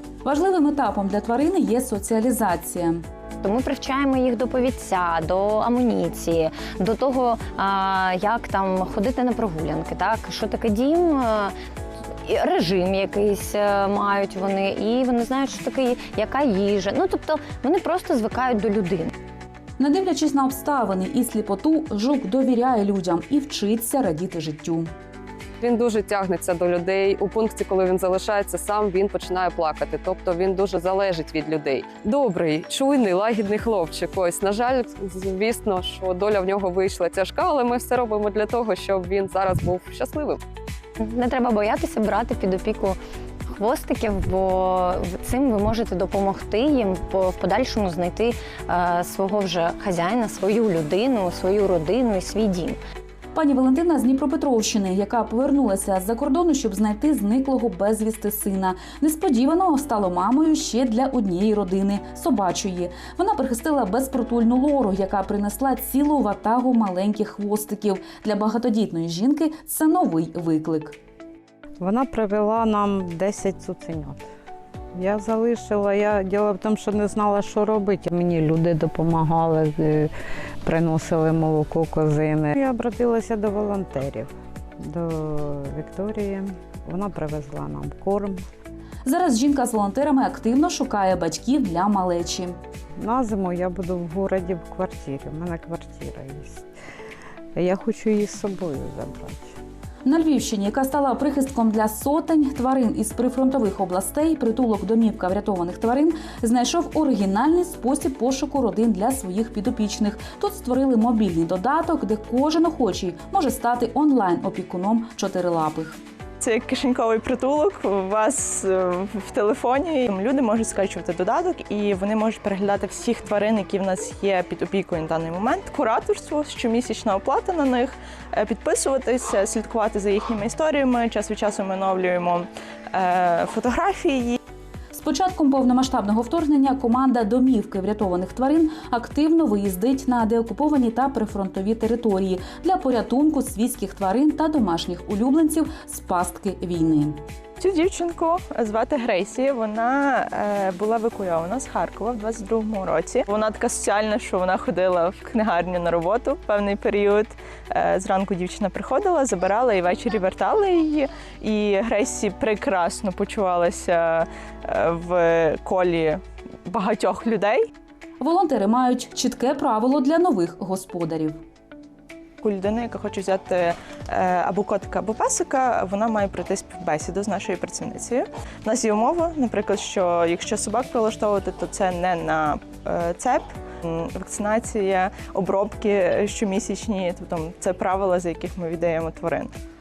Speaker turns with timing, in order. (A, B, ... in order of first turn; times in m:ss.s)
0:00.2-0:03.0 A
0:03.4-0:11.5 B
0:12.2-0:19.1 B
0:19.8-0:24.9 A
0:25.6-0:40.4 C
0:41.0-0:43.0 B
0:43.5-0:52.8 B
0:53.3-1:11.0 A
1:11.8-1:14.3 D
1:14.9-1:20.1 D
1:20.6-1:28.4 D
1:29.1-1:32.6 A
1:33.0-1:36.7 D
1:37.6-1:39.6 D
1:40.0-1:56.0 A
1:56.4-2:14.4 E
2:14.9-2:27.2 A
2:27.6-2:47.7 E
2:48.2-2:51.4 A
2:52.4-3:09.5 E